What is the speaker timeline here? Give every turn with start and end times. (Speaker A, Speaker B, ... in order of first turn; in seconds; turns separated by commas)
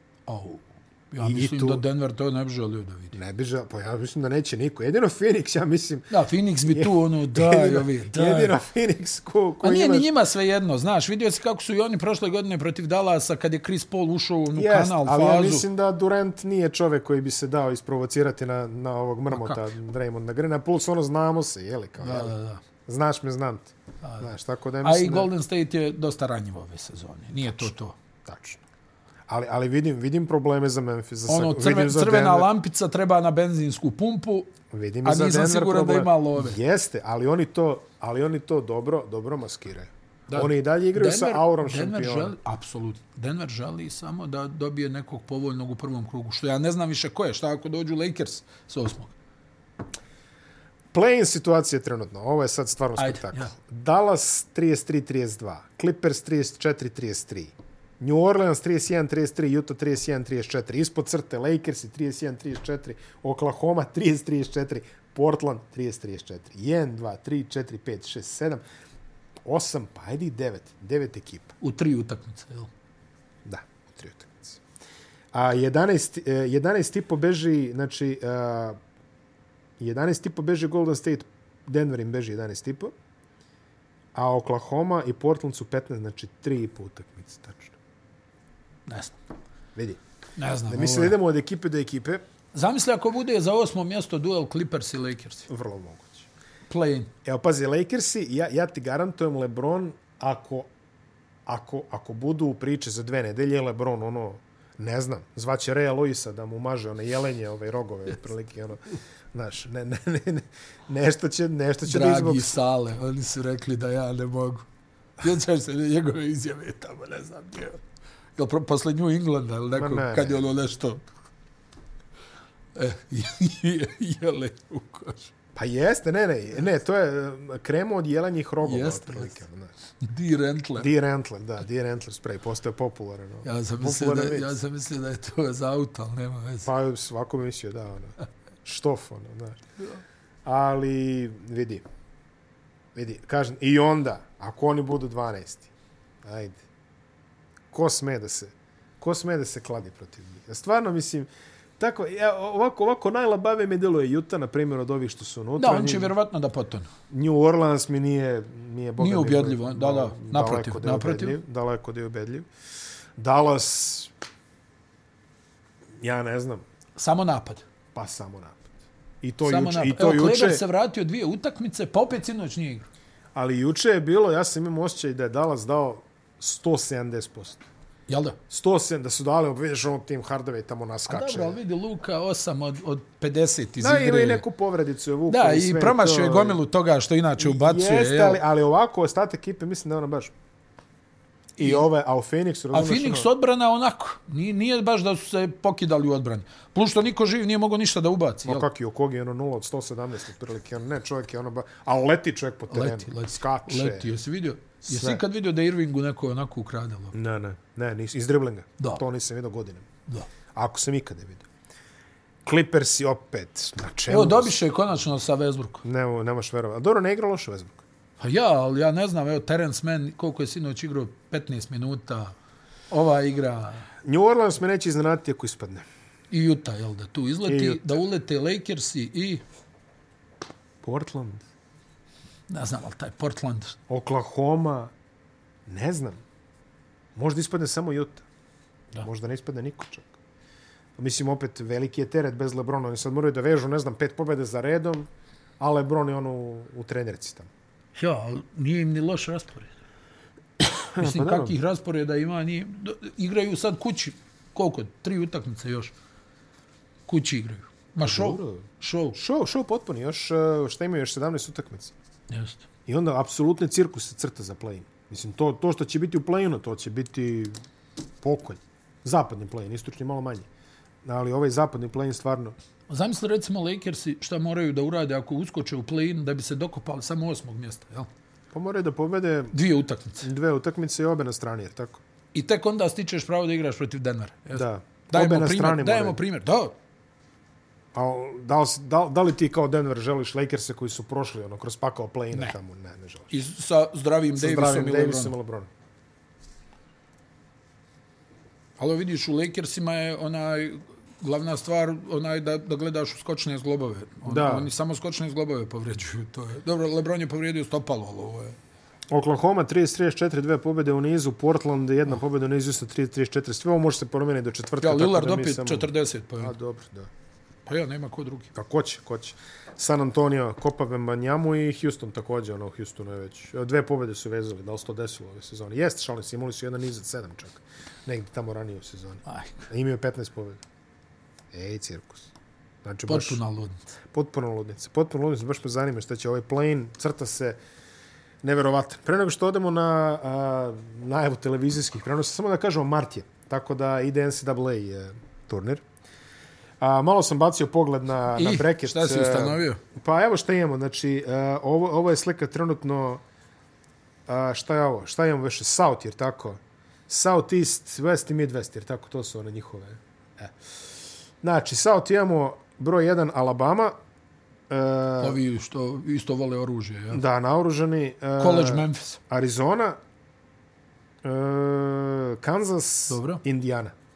Speaker A: 0.2-3.1, Speaker B: 1.2-1.8, Speaker B: 3.1-6.1, Speaker A: 6.1-8.5, Speaker B: 6.7-10.1, Speaker A: 9.6-15.6, Speaker B: 14.5-25.3, Speaker A: 19.3-19.6, Speaker A: 22.0-22.6, Speaker A: 24.0-24.3, Speaker A: 24.8-27.9, Speaker B: 28.2-28.6, Speaker B: 29.3-32.5, Speaker A: 31.3-34.5, Speaker B: 34.7-42.3, Speaker A: 35.0-36.6, Speaker A: 40.3-49.1, Speaker B: 50.9-68.6, Speaker A: 53.0-53.5, Speaker B: 69.5-71.5, Speaker A: 71.6-72.7, Speaker B: 73.4-74.6, Speaker B: 75.3-78.8, Speaker B: 79.8-82.9, Speaker B: 84.1-87.8, Speaker A: 88.9-89.2, Speaker B: 89.8-90.0, Speaker A: 90.4-91.2, Speaker B: 90.7-92.2, Speaker A: 92.5-95.5, Speaker B: 95.5-96.3, Speaker A: 96.7-97.1, Speaker B: 97.2-100.7, Speaker B: 101.5-108.8, Speaker B: 109.3-112.5, Speaker A: 111.8-114.7, Speaker A: 115.2-117.8, Speaker A: 118.3-121.0, Speaker B: 119.8-120.5, Speaker A: 122.7-125.3, Speaker B: 125.5-129.7, Speaker A: 128.6-129.3, Speaker A: 130.0-130.9, Speaker B: 130.8-134.6, Speaker A: 133.4-136.7, Speaker B: 136.6-139.6, Speaker B: 140.4-141.8, Speaker B: 142.9-145.7, Speaker B: 146.2-146.6, Speaker B: 147.7-151.3, Speaker B: 151.8-156.1, Speaker A: 155.6-156.9, Speaker B: 157.1-162.4, Speaker A: 159.0-161.4, Speaker B: 163.2-164.1, Speaker B: 166.0-166.6, Speaker A: 167.0-167.6, Speaker B: 167.9-168.6, Speaker B: 169.2-170.6, Speaker A: 169.4-172.9, Speaker B: 173.3-177.6, Speaker A: 178.1-178.4, Speaker B: 178.5-181.6, Speaker A: 181.1-184.4, Speaker B: 183.8-186.6, Speaker A: 185.3-188.4, Speaker B: 187.4-190.3, Speaker B: 191.6-193.3, Speaker A: 191.6-191.8, Speaker A: 192.7-198.7, Speaker B: 198.4-204.1, Speaker A: 202.7-207.1, Speaker B: 204.8-205.2, Speaker B: 207.1-209.9, Speaker B: 210.5-211.4, Speaker B: 212.4-214.6, Speaker A: 214.1-215.8, Speaker B: 215.8-217.8, Speaker A: 218.2-222.3, Speaker A: 222.9-223.9, Speaker B: 224.0-225.8, Speaker A: 226.3-229.4, Speaker B: 227.5-227.8, Speaker B: 230.8-231.4, Speaker A: 232.5-233.8, Speaker B: 233.9-234.9, Speaker B: 235.7-236.2, Speaker B: 237.2-238.2, Speaker B: 239.0-240.1, Speaker B: 241.0-245.1, Speaker B: 245.6-247.5, Speaker A: 247.9-249.7, Speaker B: 250.8-251.5, Speaker A: 251.0-255.9, Speaker A: 257.1-259.2, Speaker B: 258.0-261.9, Speaker A: 262.3-262.6, Speaker B: 262.9-267.6, Speaker B: 268.2-270.5, Speaker B: 271.0-272.6, Speaker A: 272.9-278.1, Speaker B: 278.5-279.6, Speaker A: 279.5-280.2, Speaker B: 280.2-282.0, Speaker A: 282.3-286.7, Speaker B: 284.5-286.2, Speaker B: 287.9-293.3, Speaker A: 293.3-295.3, Speaker B: 294.4-295.7, Speaker A: 298.8-308.6, Speaker B: 304.2-304.7, Speaker B: 309.1-317.1, Speaker A: 314.8-316.5, Speaker A: 317.6-318.5, Speaker B: 318.5-330.6, Speaker A: 329.2-329.6, Speaker B: 331.5-332.3, Speaker B: 332.8-333.4, Speaker A: 333.1-333.8, Speaker B: 334.1-337.6, Speaker B: 338.4-345.8, Speaker B: 346.8-353.2, Speaker A: 348.3-349.8, Speaker B: 354.3-360.5, Speaker B: 361.4-363.9, Speaker B: 364.7-365.4, Speaker A: 365.2-367.2, Speaker B: 367.1-370.0, Speaker A: 368.4-369.2, Speaker B: 371.2-373.9, Speaker A: 373.1-373.4